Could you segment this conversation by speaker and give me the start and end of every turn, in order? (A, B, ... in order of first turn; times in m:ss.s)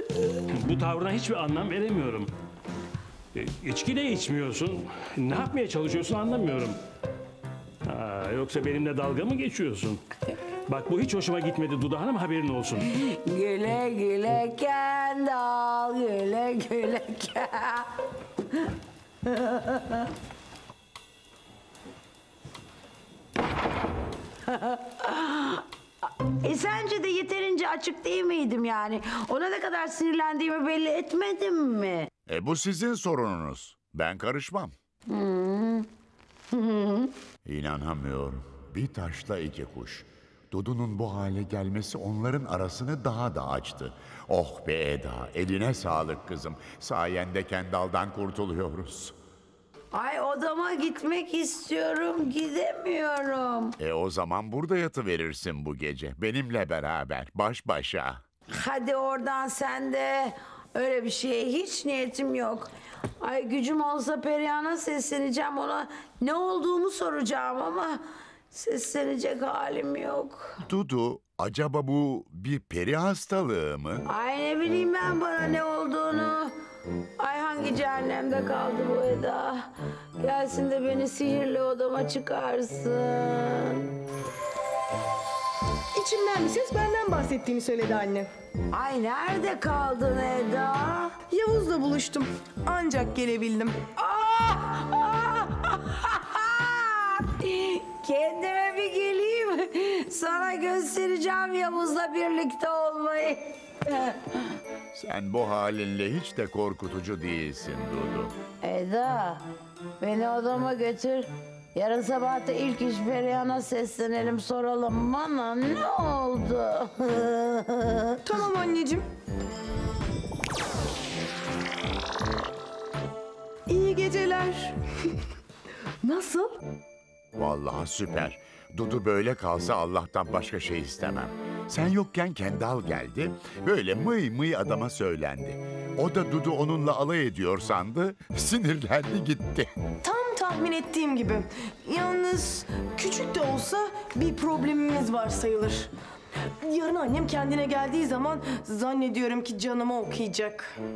0:00.5-0:02.3 A
0:03.3-0:06.8 A
0:07.8-0:10.0 A
0:10.7-0:12.8 A
0:12.8-0:17.9 B
0:19.2-0:20.1 B
0:24.4-0:25.6 B
0:26.2-0:32.1 B
0:32.3-0:34.7 C
0:35.1-0:35.9 B
0:36.5-0:37.1 B
0:37.4-0:49.1 C
0:49.9-0:53.8 B
0:53.8-0:58.2 C
0:58.5-1:08.0 B
1:08.5-1:10.6 B
1:10.7-1:14.0 C
1:14.0-1:16.5 B
1:17.2-1:19.7 B
1:20.2-1:23.9 B
1:25.9-1:28.3 D
1:28.7-1:31.1 B
1:31.3-1:33.8 D
1:34.0-1:44.4 B
1:44.9-1:48.3 C
1:48.6-1:49.4 B
1:50.0-1:58.2 B
1:58.2-1:59.1 D
2:03.7-2:05.2 D
2:06.0-2:06.6 D
2:07.4-2:19.7 C
2:20.0-2:25.9 D
2:26.6-2:30.8 D